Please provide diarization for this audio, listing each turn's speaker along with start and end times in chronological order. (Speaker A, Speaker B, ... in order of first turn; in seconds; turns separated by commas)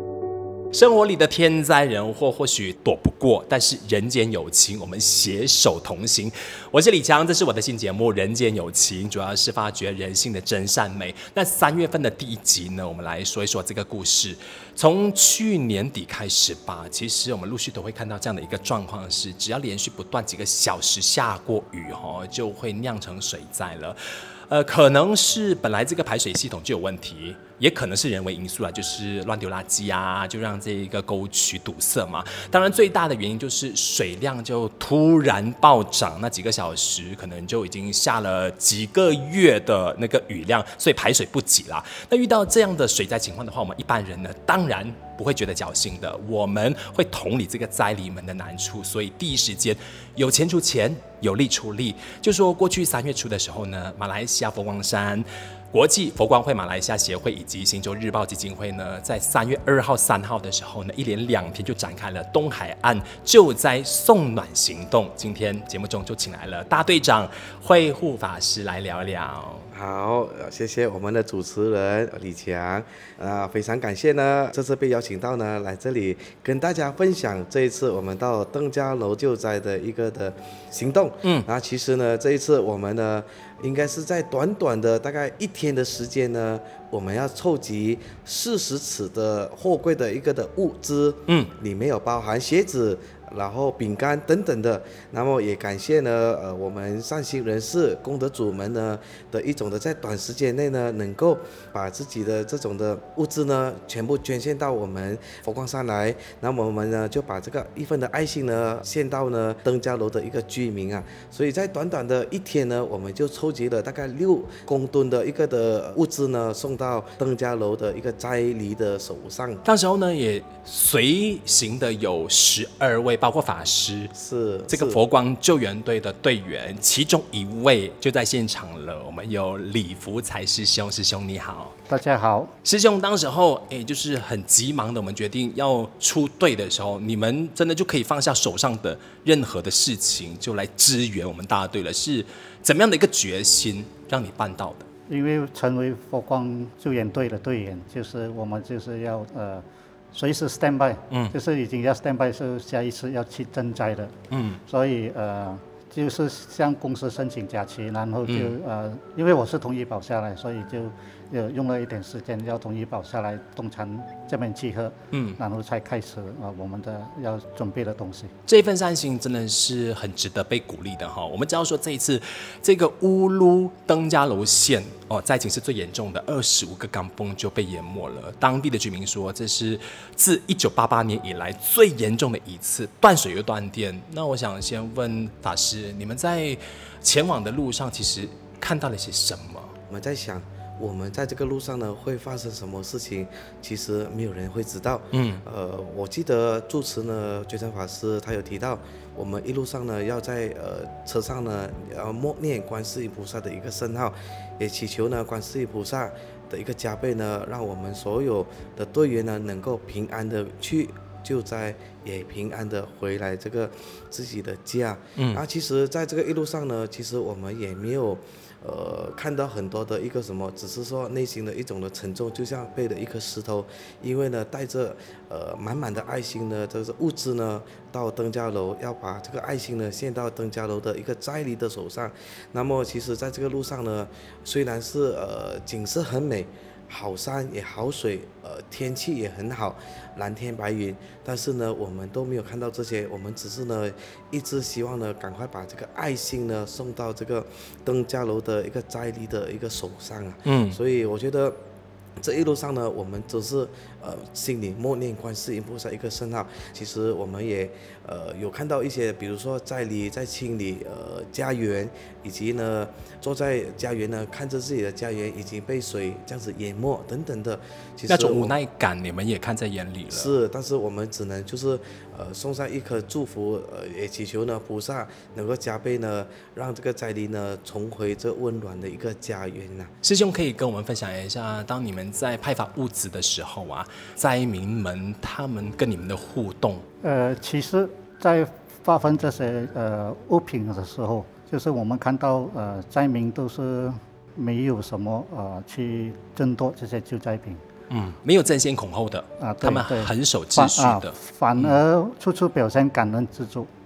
Speaker A: 0.7-24.0, Speaker A: 24.5-69.7, Speaker B: 69.7-119.6, Speaker A: 91.3-91.5, Speaker A: 119.6-124.1, Speaker B: 124.2-125.0, Speaker A: 124.7-131.8, Speaker C: 131.9-132.5, Speaker A: 132.6-144.9, Speaker C: 145.1-168.3, Speaker A: 154.3-154.6, Speaker A: 158.3-158.6, Speaker A: 165.1-165.4, Speaker A: 168.5-189.8, Speaker B: 189.9-251.6, Speaker A: 195.1-195.4, Speaker A: 215.2-215.4, Speaker A: 250.4-250.8, Speaker B: 252.2-268.6, Speaker A: 268.1-270.4, Speaker B: 270.1-279.9, Speaker A: 280.0-286.9, Speaker C: 287.0-297.6, Speaker A: 297.9-301.8, Speaker C: 299.4-303.7